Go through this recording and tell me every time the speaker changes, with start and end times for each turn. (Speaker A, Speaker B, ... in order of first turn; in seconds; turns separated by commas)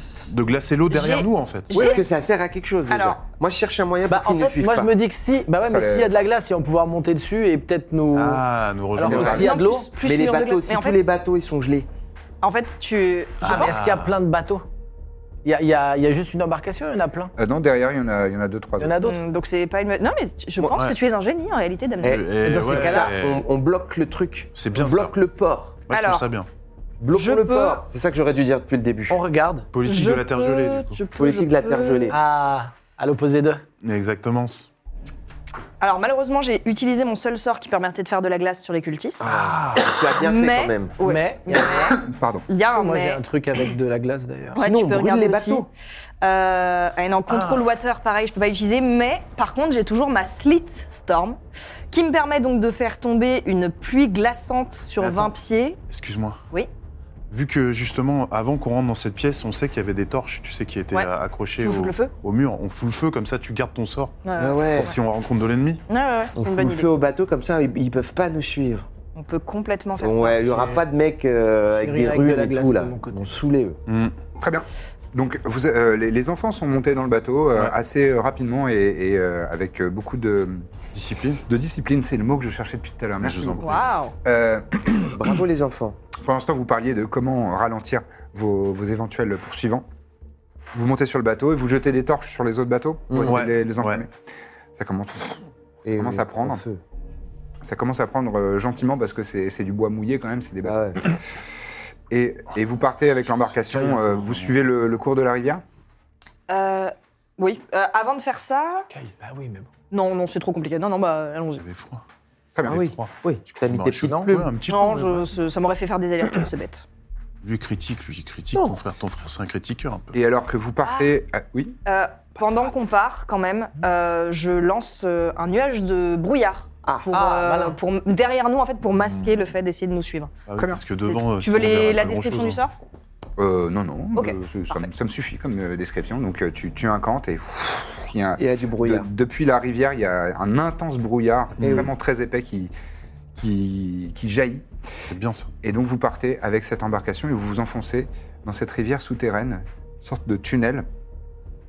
Speaker A: 0.3-1.7, Speaker B: 0.9-2.1, Speaker C: 1.7-2.0, Speaker D: 1.8-4.9, Speaker B: 2.9-3.2, Speaker C: 4.1-9.9, Speaker E: 5.7-6.1, Speaker A: 8.1-9.5, Speaker E: 9.0-9.5, Speaker B: 9.2-11.0, Speaker D: 10.0-11.9, Speaker B: 12.4-13.7, Speaker C: 13.4-14.7, Speaker A: 13.4-14.1, Speaker C: 15.4-17.3, Speaker E: 17.4-18.9, Speaker C: 18.8-19.2, Speaker B: 19.0-22.2, Speaker A: 20.6-21.0, Speaker D: 22.0-25.8, Speaker A: 22.0-23.4, Speaker C: 22.4-23.1, Speaker A: 24.6-25.2, Speaker A: 25.9-26.5, Speaker B: 25.9-26.3, Speaker D: 27.0-29.2, Speaker B: 27.1-27.9, Speaker C: 29.1-29.7, Speaker A: 29.7-31.0, Speaker B: 29.9-32.2, Speaker D: 31.2-32.2, Speaker C: 32.1-33.6, Speaker A: 33.8-34.7, Speaker B: 35.8-39.2, Speaker D: 39.2-41.0, Speaker A: 39.2-39.9, Speaker B: 39.8-43.2, Speaker C: 41.0-42.0, Speaker E: 41.9-42.5, Speaker C: 42.6-44.6, Speaker B: 44.6-45.7, Speaker D: 44.6-45.7, Speaker B: 46.2-51.4, Speaker A: 47.3-47.7, Speaker B: 51.9-55.8, Speaker A: 55.0-55.3, Speaker A: 55.9-56.4, Speaker A: 57.3-64.2, Speaker B: 60.9-62.1, Speaker B: 64.2-64.9, Speaker D: 64.4-64.9, Speaker A: 64.8-65.8, Speaker B: 65.9-66.9, Speaker D: 66.4-68.9, Speaker B: 69.2-70.4, Speaker D: 70.0-73.8, Speaker C: 70.4-70.8, Speaker C: 71.8-73.4, Speaker A: 73.9-74.2, Speaker E: 74.4-80.7, Speaker A: 80.9-81.4, Speaker E: 81.5-85.4, Speaker A: 83.2-83.8, Speaker B: 83.6-84.1, Speaker D: 85.1-86.0, Speaker E: 86.2-89.9, Speaker E: 90.7-94.1, Speaker D: 93.1-93.4, Speaker A: 93.2-94.0, Speaker E: 94.7-95.4, Speaker D: 95.8-96.8, Speaker E: 95.9-96.6, Speaker E: 97.6-101.4, Speaker D: 100.6-101.1, Speaker E: 102.1-105.6, Speaker A: 103.6-104.5, Speaker B: 106.5-108.9, Speaker C: 109.2-109.7, Speaker B: 109.9-111.6, Speaker A: 111.6-112.0, Speaker E: 112.5-112.9, Speaker D: 112.7-114.5, Speaker A: 112.7-115.3, Speaker C: 114.1-114.3, Speaker B: 114.7-116.9, Speaker A: 117.4-120.2, Speaker E: 120.1-121.8, Speaker B: 121.9-130.3, Speaker D: 126.8-127.1, Speaker C: 127.1-127.8, Speaker A: 130.5-132.6, Speaker B: 131.0-132.7, Speaker E: 133.4-142.7, Speaker B: 134.2-134.9, Speaker D: 138.4-139.1, Speaker A: 141.6-141.9, Speaker D: 141.6-141.9, Speaker E: 143.3-144.7, Speaker A: 145.1-145.5, Speaker E: 145.6-150.9